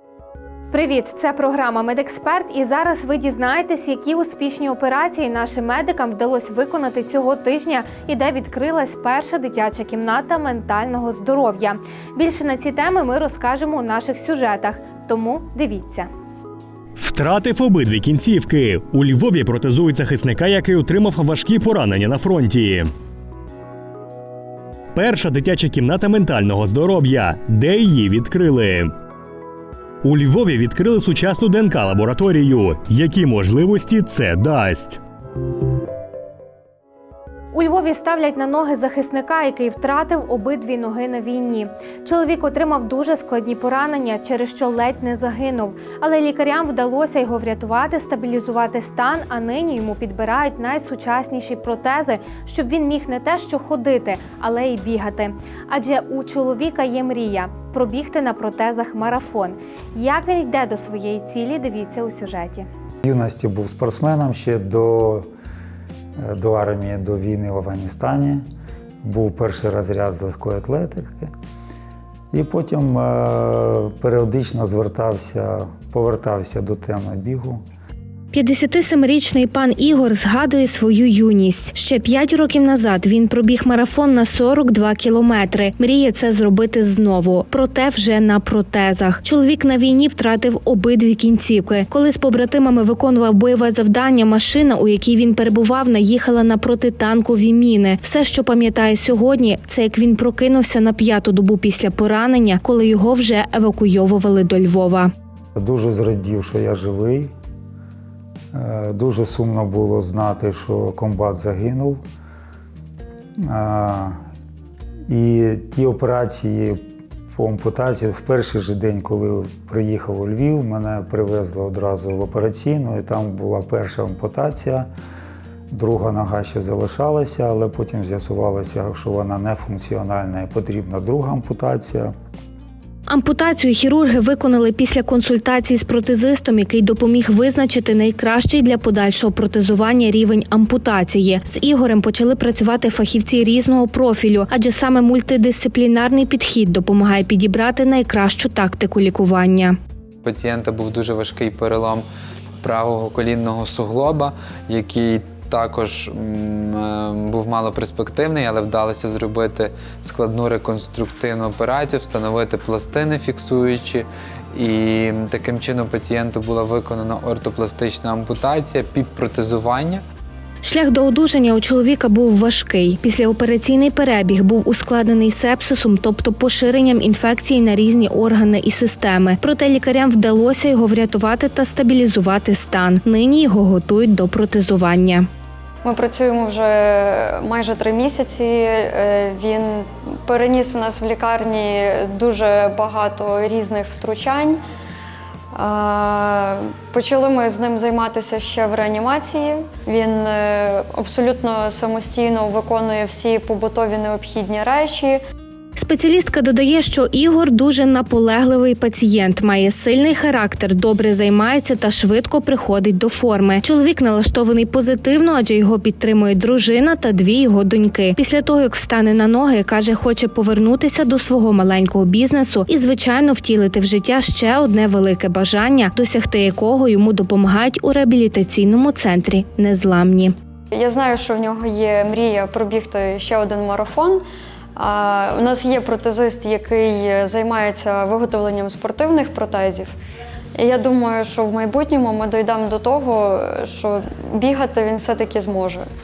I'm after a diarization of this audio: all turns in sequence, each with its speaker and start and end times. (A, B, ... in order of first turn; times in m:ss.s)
0:00.7-0:16.1 A
0:17.0-0:22.9 B
0:24.9-0:28.9 B
0:30.0-0:35.0 B
0:37.5-1:02.7 A
1:03.0-1:05.3 C
1:06.2-1:08.4 C
1:09.0-1:11.3 C
1:12.3-1:17.6 C
1:18.3-1:45.1 A
1:45.6-1:47.3 C
1:48.5-1:52.0 C
1:53.4-1:54.2 C
1:55.1-1:56.8 C
1:57.3-2:04.9 C
2:05.7-2:12.1 C
2:13.1-2:29.8 A
2:30.2-2:32.0 D
2:32.6-2:44.0 D
2:44.6-2:50.0 D
2:50.6-3:05.3 A
3:05.8-3:14.6 E
3:15.5-3:25.2 E
3:25.8-3:50.3 A
3:50.7-3:54.2 E
3:54.8-3:59.9 E
4:00.5-4:05.8 E